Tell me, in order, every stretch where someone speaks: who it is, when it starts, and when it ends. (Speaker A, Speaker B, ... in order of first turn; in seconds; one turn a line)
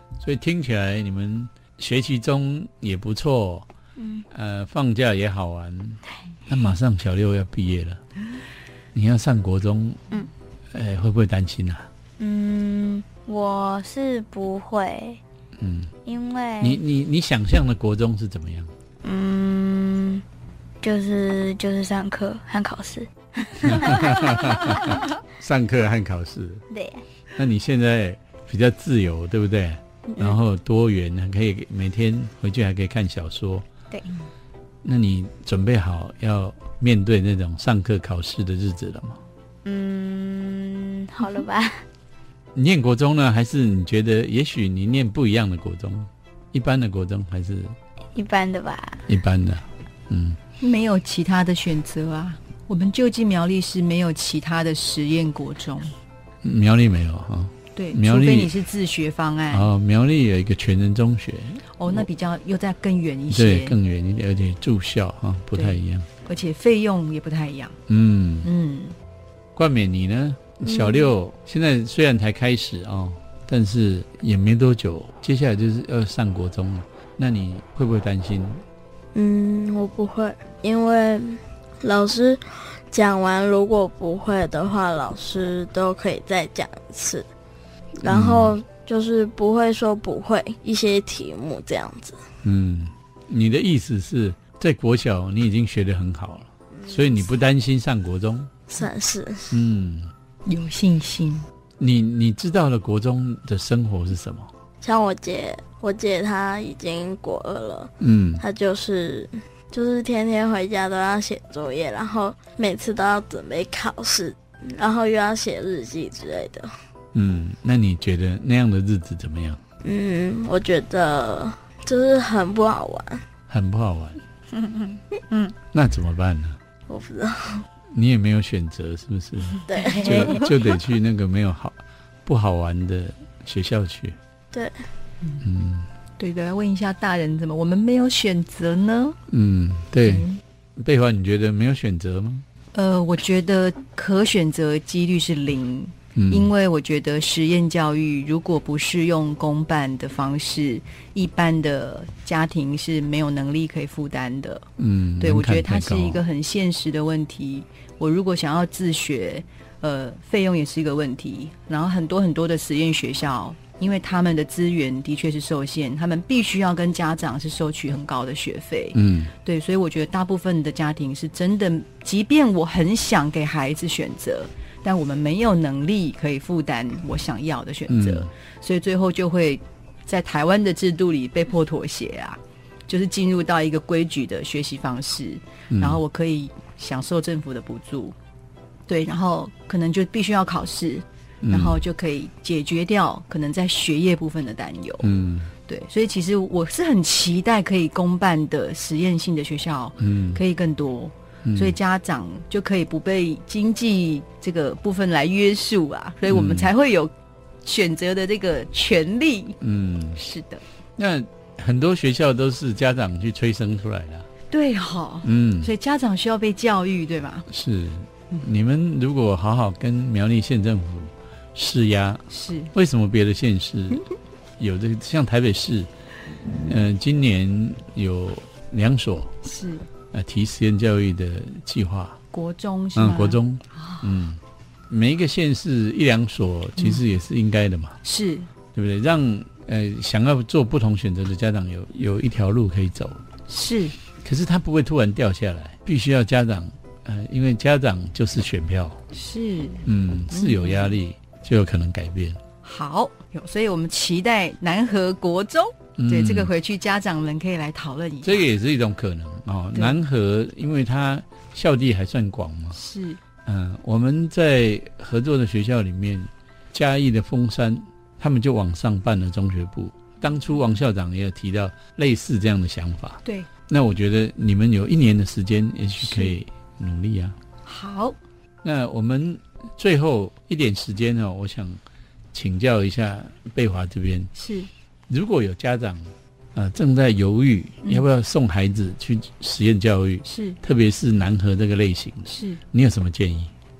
Speaker A: 0.2-3.7
Speaker B: 4.0-4.2
Speaker A: 4.3-8.0
Speaker A: 8.9-10.0
Speaker A: 10.7-11.9
Speaker B: 12.2-15.2
Speaker A: 15.6-15.9
Speaker B: 16.0-16.8
Speaker A: 16.6-18.7
Speaker B: 19.0-20.2
Speaker B: 20.8-24.9
Speaker A: 23.6-26.6
Speaker B: 26.7-27.0
Speaker A: 27.4-33.6
Speaker B: 30.1-30.4
Speaker A: 34.8-39.2
Speaker B: 39.6-41.8
Speaker A: 42.5-47.7
Speaker B: 48.1-49.0
Speaker A: 49.1-50.4
Speaker C: 50.6-55.9
Speaker A: 56.4-58.5
Speaker C: 57.7-59.7
Speaker A: 59.5-62.0
Speaker C: 61.8-63.8
Speaker A: 63.3-66.1
Speaker C: 65.5-67.8
Speaker A: 67.9-68.5
Speaker C: 68.4-68.9
Speaker A: 69.5-78.6
Speaker D: 70.7-71.1
Speaker D: 79.1-87.3
Speaker D: 88.0-92.2
Speaker A: 88.0-88.6
Speaker A: 92.4-98.5
Speaker D: 96.8-97.2
Speaker D: 98.7-99.6
Speaker A: 99.5-100.1
Speaker C: 100.5-101.5
Speaker A: 101.8-104.5
Speaker D: 104.8-116.7
Speaker A: 108.0-108.4
Speaker A: 117.1-119.6
Speaker D: 119.8-123.2
Speaker A: 123.5-124.2
Speaker B: 124.5-125.5
Speaker A: 125.7-126.6
Speaker D: 126.9-127.6
Speaker A: 127.9-134.2
Speaker D: 129.7-130.4
Speaker C: 130.1-130.4
Speaker D: 134.5-134.8
Speaker A: 135.4-135.9
Speaker C: 136.2-139.2
Speaker A: 139.3-142.4
Speaker C: 140.0-140.4
Speaker C: 142.7-154.6
Speaker A: 146.2-146.5
Speaker A: 154.8-156.2
Speaker C: 155.2-188.2
Speaker A: 168.9-169.3
Speaker A: 177.9-178.3
Speaker A: 185.7-186.0
Speaker C: 188.9-207.1
Speaker A: 191.4-191.8
Speaker A: 195.0-195.5
Speaker A: 200.0-200.4
Speaker A: 201.4-201.8
Speaker A: 206.3-206.7
Speaker C: 207.6-209.6
Speaker A: 209.6-210.2
Speaker C: 210.2-210.6
Speaker A: 211.0-214.3
Speaker C: 214.5-217.4
Speaker A: 215.2-215.7
Speaker A: 217.5-224.0
Speaker C: 222.3-222.7
Speaker A: 224.6-225.9
Speaker A: 226.6-229.3
Speaker C: 229.4-229.9
Speaker A: 230.1-232.2
Speaker C: 232.3-234.1
Speaker A: 232.9-238.0
Speaker C: 236.8-237.0
Speaker C: 238.0-238.5
Speaker A: 238.7-243.2
Speaker C: 243.5-243.9
Speaker A: 244.2-249.0
Speaker C: 249.1-251.0
Speaker A: 249.8-252.4
Speaker C: 252.6-258.5
Speaker A: 256.0-256.5
Speaker A: 258.2-262.8
Speaker C: 262.7-263.2
Speaker A: 263.4-277.4
Speaker C: 276.0-276.3
Speaker C: 277.6-278.2
Speaker A: 278.6-281.8
Speaker A: 282.3-284.3
Speaker C: 284.3-284.7
Speaker A: 285.1-293.5
Speaker C: 290.2-290.6
Speaker C: 292.3-292.6